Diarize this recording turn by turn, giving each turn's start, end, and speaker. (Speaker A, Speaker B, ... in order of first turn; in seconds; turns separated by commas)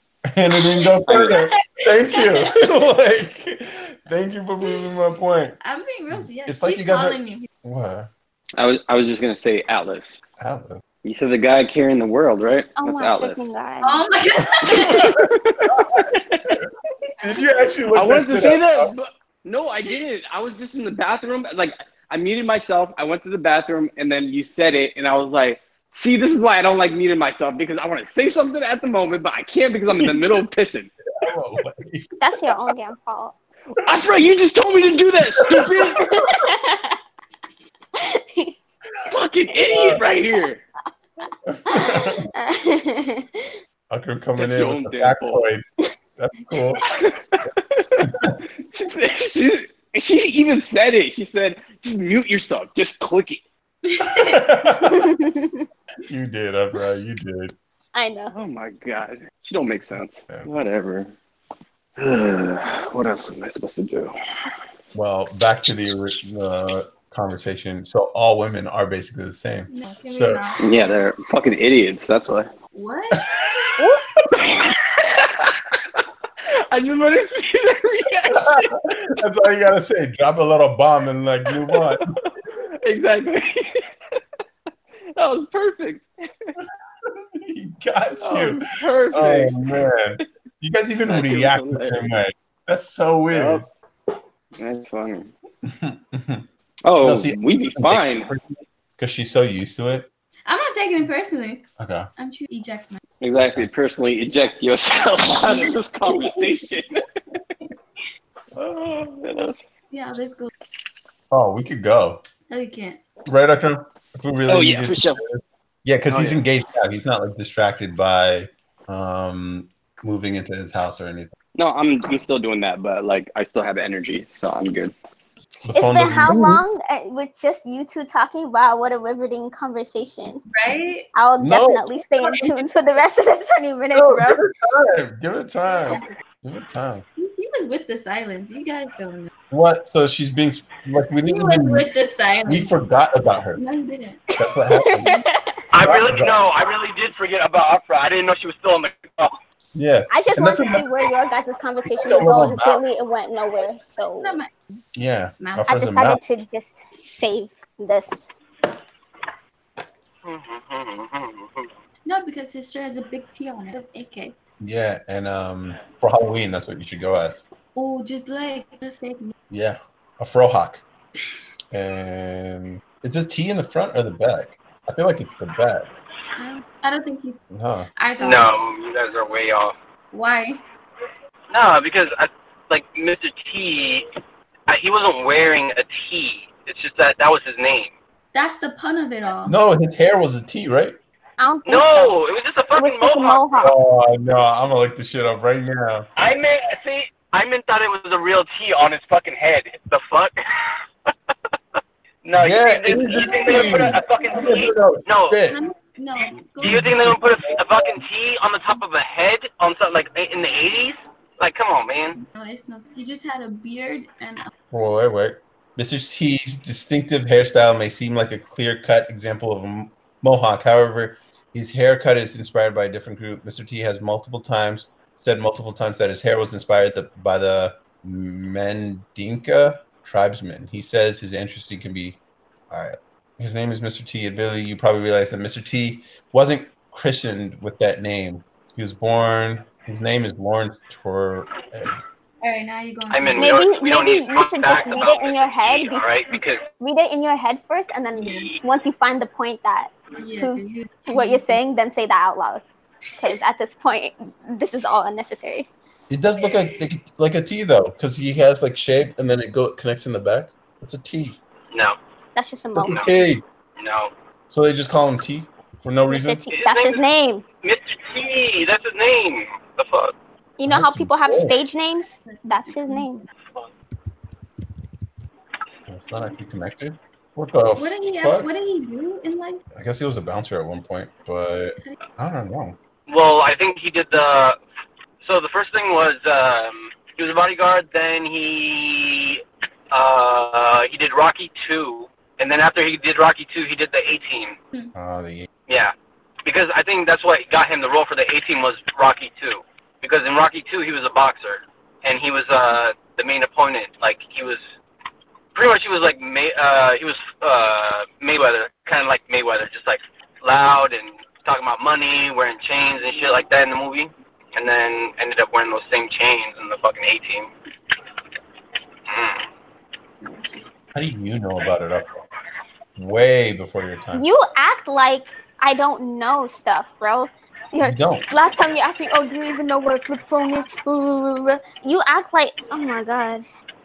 Speaker A: 0.3-5.6, Speaker B: 1.1-1.4, Speaker C: 2.1-2.5, Speaker C: 5.6-7.5, Speaker A: 6.1-8.1, Speaker B: 8.6-10.2, Speaker A: 10.4-10.8, Speaker B: 11.0-13.5, Speaker D: 12.8-14.0, Speaker C: 13.8-15.2, Speaker A: 14.6-16.1, Speaker B: 15.2-16.5, Speaker C: 17.2-17.8, Speaker A: 17.2-18.9, Speaker B: 17.9-30.9, Speaker A: 31.1-32.1, Speaker D: 32.2-33.4, Speaker B: 33.7-36.1, Speaker A: 35.4-36.0, Speaker D: 36.0-37.0, Speaker D: 38.0-38.5, Speaker B: 39.1-40.6, Speaker A: 39.6-40.0, Speaker A: 41.5-42.3, Speaker D: 41.7-43.6, Speaker A: 43.9-46.9, Speaker B: 44.4-45.4, Speaker B: 46.8-53.4, Speaker A: 48.0-48.4, Speaker C: 53.9-54.4, Speaker A: 54.1-55.3, Speaker D: 54.8-55.6, Speaker A: 56.1-57.5, Speaker D: 57.9-58.4, Speaker B: 58.3-61.1, Speaker B: 62.0-64.1, Speaker A: 64.9-70.4, Speaker C: 69.7-70.7, Speaker B: 70.6-72.5, Speaker C: 72.7-73.2, Speaker B: 73.8-76.0, Speaker B: 76.7-78.7, Speaker A: 78.3-82.0, Speaker B: 81.7-82.2, Speaker B: 82.8-83.8, Speaker B: 85.2-86.5, Speaker A: 87.0-93.7, Speaker B: 88.2-89.6, Speaker B: 91.1-92.1, Speaker B: 93.3-93.7, Speaker B: 94.6-95.3, Speaker A: 95.7-96.5, Speaker B: 96.8-98.3, Speaker A: 97.0-100.1, Speaker C: 100.5-101.7, Speaker A: 101.8-102.1, Speaker C: 102.2-103.0, Speaker B: 103.2-107.0, Speaker C: 105.4-106.4, Speaker B: 108.6-109.6, Speaker C: 109.9-110.5, Speaker A: 111.3-112.2, Speaker C: 112.5-113.0, Speaker A: 113.3-121.3, Speaker B: 114.5-115.2, Speaker B: 116.1-116.4, Speaker B: 121.5-124.9, Speaker A: 125.7-126.6, Speaker D: 125.7-130.4, Speaker C: 130.5-131.1, Speaker D: 131.1-134.4, Speaker A: 131.4-131.8, Speaker C: 132.2-132.6, Speaker A: 133.9-137.1, Speaker C: 135.6-136.1, Speaker C: 137.2-139.3, Speaker A: 139.5-141.9, Speaker C: 141.2-142.7, Speaker A: 142.5-143.6, Speaker C: 143.6-144.2, Speaker A: 144.3-145.2, Speaker D: 144.4-145.5, Speaker E: 145.7-149.4, Speaker A: 145.8-146.4, Speaker A: 149.8-150.9, Speaker D: 150.1-154.4, Speaker A: 151.9-152.8, Speaker C: 154.2-154.5, Speaker A: 154.9-156.2, Speaker C: 155.4-155.9, Speaker D: 155.7-158.3, Speaker E: 160.2-161.7, Speaker C: 162.1-164.4, Speaker A: 164.6-167.4, Speaker C: 167.8-169.3, Speaker A: 169.5-170.8, Speaker A: 171.7-175.9, Speaker C: 176.4-177.4, Speaker A: 177.5-177.9, Speaker C: 178.0-178.6, Speaker E: 178.2-179.8, Speaker C: 180.1-180.6, Speaker E: 181.5-184.1, Speaker E: 184.7-187.9, Speaker C: 188.3-189.6, Speaker A: 189.5-191.0, Speaker D: 191.4-192.1, Speaker E: 191.7-193.5, Speaker D: 192.8-193.7, Speaker A: 193.6-196.1, Speaker E: 196.2-200.4, Speaker E: 202.2-205.4, Speaker A: 202.4-205.6, Speaker C: 205.5-207.0, Speaker A: 206.6-208.0, Speaker E: 206.6-212.2, Speaker C: 212.2-214.5, Speaker A: 214.7-232.2, Speaker A: 232.7-242.0, Speaker C: 242.4-243.5, Speaker E: 243.1-246.6, Speaker D: 243.4-246.1, Speaker D: 246.8-252.6, Speaker E: 248.2-248.6, Speaker C: 250.2-251.6, Speaker D: 253.2-255.7, Speaker A: 256.1-261.4, Speaker E: 261.7-262.0, Speaker D: 262.4-263.1, Speaker A: 262.8-263.4, Speaker E: 263.8-264.1, Speaker A: 264.5-266.4, Speaker D: 266.1-267.4, Speaker E: 266.5-267.0, Speaker E: 267.6-270.1, Speaker D: 270.6-273.2, Speaker A: 270.7-271.6, Speaker C: 272.2-273.3, Speaker A: 275.9-278.5, Speaker C: 277.8-279.6, Speaker A: 279.7-282.8, Speaker E: 283.1-284.6, Speaker E: 285.2-294.6, Speaker A: 294.9-295.5, Speaker E: 295.7-295.9, Speaker E: 296.4-304.6, Speaker E: 305.5-317.5, Speaker E: 319.1-319.5, Speaker C: 320.2-320.7, Speaker A: 320.9-322.2, Speaker A: 323.0-324.3, Speaker D: 324.1-333.5, Speaker A: 327.8-328.3